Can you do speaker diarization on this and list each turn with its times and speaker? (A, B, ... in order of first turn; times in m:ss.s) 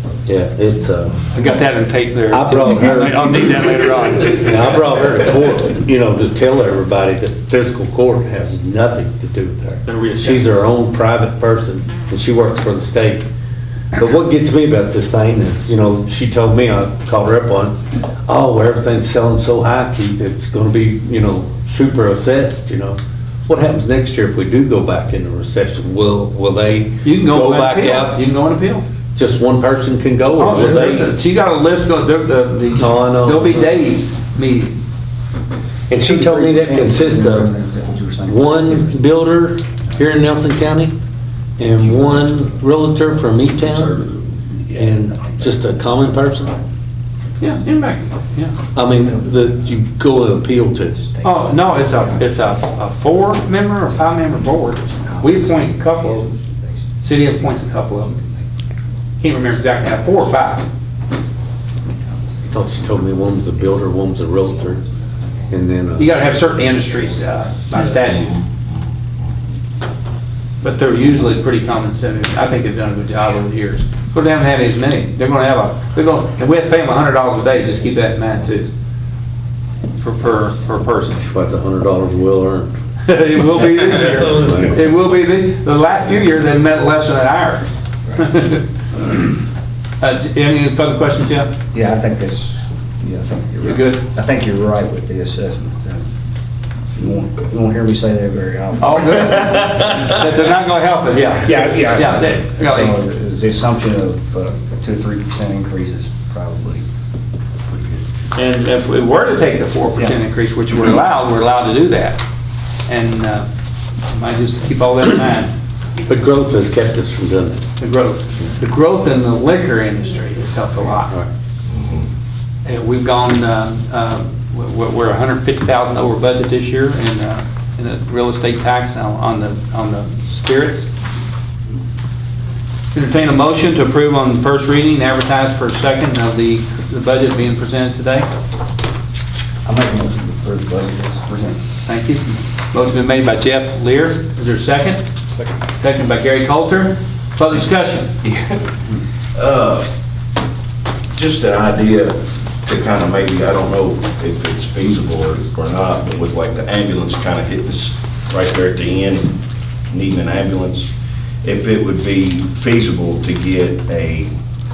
0:00.3-0:01.2 A
0:01.3-0:05.1 B
0:02.3-0:03.4 A
0:04.2-0:13.3 A
0:09.8-0:10.5 B
0:14.0-0:28.2 A
0:27.0-0:28.8 B
0:29.2-0:31.1 A
0:30.4-0:34.8 B
0:32.8-0:33.8 A
0:35.9-0:37.5 A
0:36.0-0:39.0 C
0:38.2-0:41.0 A
0:41.6-0:44.0 A
0:42.0-0:42.3 C
0:43.6-0:46.6 C
0:44.7-0:46.5 A
0:47.4-0:48.6 B
0:48.7-0:51.0 A
0:49.2-0:49.5 C
0:51.0-0:52.3 C
0:51.2-0:56.3 B
0:54.0-0:54.2 C
0:54.8-0:57.0 C
0:57.0-0:58.2 B
0:57.9-0:58.5 C
0:59.2-1:00.7 B
0:59.4-1:00.5 C
1:01.9-1:03.2 C
1:02.5-1:04.8 A
1:04.4-1:05.5 C
1:05.5-1:06.1 A
1:06.0-1:08.4 B
1:06.1-1:07.8 C
1:08.2-1:08.8 D
1:10.6-1:18.7 B
1:20.0-1:21.3 B
1:21.2-1:22.8 A
1:23.0-1:28.6 B
1:24.0-1:24.9 A
1:30.0-1:31.5 B
1:31.7-1:36.1 C
1:33.6-1:34.0 B
1:37.0-1:40.1 C
1:38.8-1:43.0 B
1:41.4-1:46.8 C
1:47.7-1:48.0 C
1:48.4-1:52.2 B
1:52.9-1:53.5 B
1:54.1-1:55.5 B
1:56.0-1:57.6 A
1:57.8-2:01.1 B
2:01.6-2:02.1 D
2:02.6-2:10.9 B
2:12.9-2:18.3 B
2:19.6-2:21.6 C
2:21.9-2:25.0 B
2:25.8-2:28.2 B
2:29.3-2:29.9 D
2:31.1-2:39.4 D
2:39.9-2:40.9 D
2:41.4-2:44.3 D